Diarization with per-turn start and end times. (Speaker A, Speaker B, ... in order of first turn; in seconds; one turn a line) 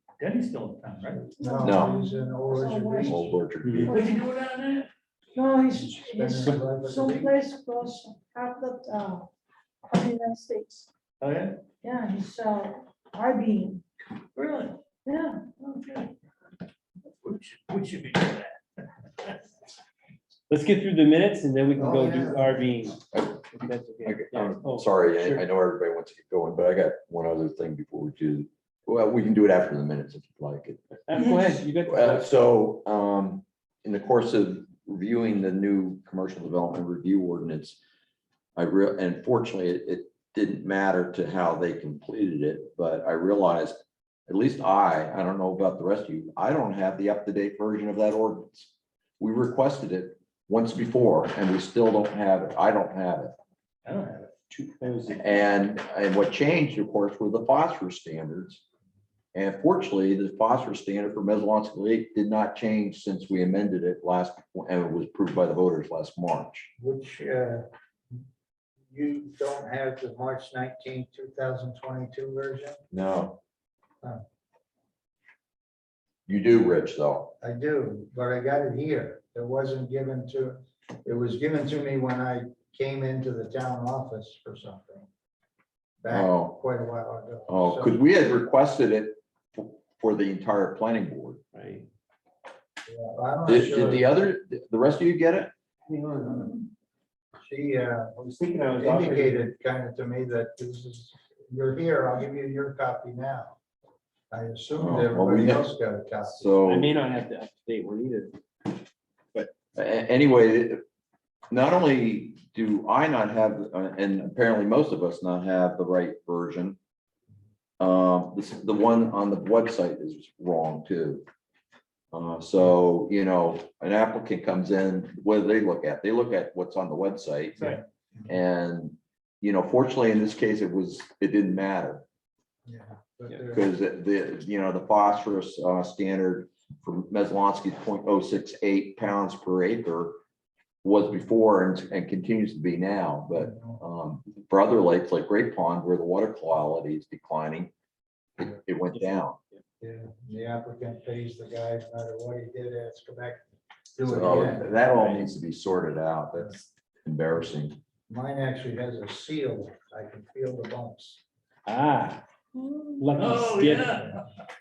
Speaker A: 0.2-1.3
Speaker B: 1.3-3.4
Speaker C: 1.4-3.2
Speaker D: 1.6-2.0
Speaker D: 3.1-4.0
Speaker E: 3.6-3.9
Speaker A: 3.9-4.9
Speaker C: 5.3-9.3
Speaker B: 6.1-7.3
Speaker C: 9.8-10.9
Speaker A: 11.2-11.6
Speaker C: 11.8-13.8
Speaker A: 14.3-14.8
Speaker C: 15.1-15.5
Speaker A: 15.6-16.1
Speaker A: 17.1-19.6
Speaker E: 20.5-25.4
Speaker B: 21.8-22.5
Speaker D: 23.1-31.2
Speaker E: 31.1-32.3
Speaker D: 31.9-37.8
Speaker D: 38.6-53.3
Speaker A: 53.9-54.3
Speaker E: 54.5-55.2
Speaker D: 55.2-58.6
Speaker D: 59.3-66.7
Speaker B: 66.8-67.7
Speaker B: 68.9-72.8
Speaker D: 72.9-73.4
Speaker D: 76.3-77.3
Speaker B: 77.4-85.1
Speaker B: 86.0-88.0
Speaker D: 86.1-86.6
Speaker D: 87.5-91.4
Speaker E: 91.5-91.9
Speaker B: 92.9-94.1
Speaker D: 93.5-95.5
Speaker E: 95.9-96.6
Speaker B: 97.4-98.2
Speaker E: 98.2-99.5
Speaker B: 98.8-103.6
Speaker B: 104.3-106.5
Speaker D: 104.8-105.7
Speaker D: 106.4-106.9
Speaker E: 106.5-108.8
Speaker D: 109.7-110.8
Speaker D: 111.5-116.8
Speaker D: 117.8-121.2
Speaker D: 122.1-127.8
Speaker B: 127.6-128.3
Speaker D: 128.3-132.0
Speaker B: 132.7-133.7
Speaker D: 133.5-140.2
Speaker D: 140.8-147.7
Speaker B: 143.3-143.8
Speaker D: 148.4-149.4
Speaker B: 149.8-153.4
Speaker B: 153.9-155.2
Speaker D: 154.1-157.8
Speaker B: 158.1-161.2
Speaker E: 161.7-162.2
Speaker E: 163.0-164.0
Speaker A: 163.2-164.2
Speaker B: 163.2-164.2